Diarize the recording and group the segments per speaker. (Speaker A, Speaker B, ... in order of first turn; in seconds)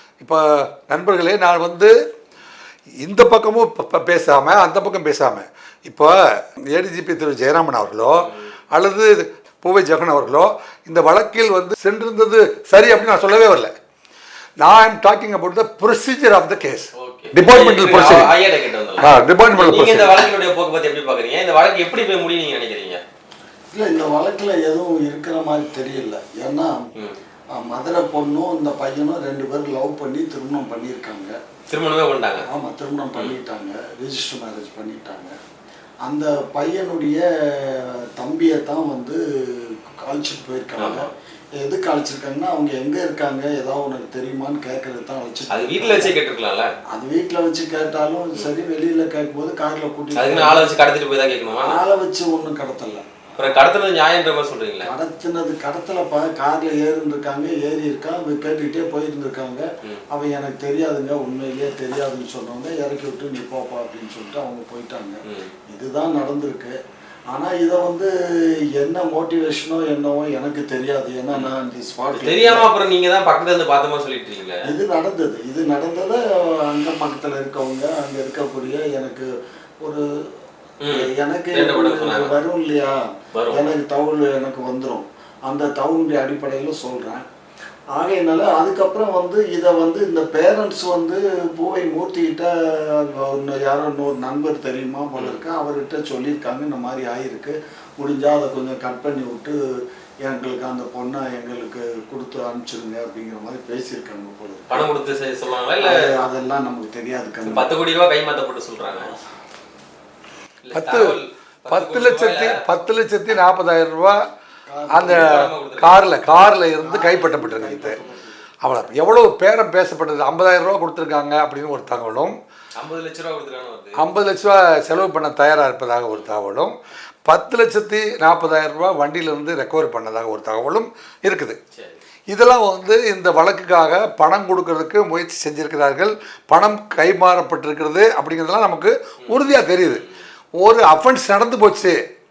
Speaker A: 0.2-1.9, 3.0-6.1, 6.7-13.7, 14.6-18.3, 19.0-20.1, 110.7-111.1, 111.7-114.2, 114.9-118.0, 118.6-122.3, 124.0-126.8, 127.3-131.6, 132.3-140.0, 140.6-141.9
Speaker B: 8.2-8.5, 17.0-23.0, 31.7-32.5, 40.8-41.1, 45.5-46.7, 50.1-51.8, 53.4-54.9, 65.3-65.5, 72.2-74.7, 80.8-82.4, 83.3-83.7, 95.2-95.4, 104.7-106.0, 107.5-109.1, 110.6-112.6, 115.1-116.0, 122.8-124.0, 131.7-132.0, 139.2-140.2
Speaker C: 23.7-26.9, 27.5-31.4, 32.5-35.4, 36.0-46.1, 46.9-50.7, 51.6-53.1, 54.8-66.8, 67.3-68.1, 68.8-72.7, 74.7-79.3, 80.9-87.2, 87.9-99.6, 100.2-104.9, 105.8-107.7, 114.7-115.4, 116.8-118.4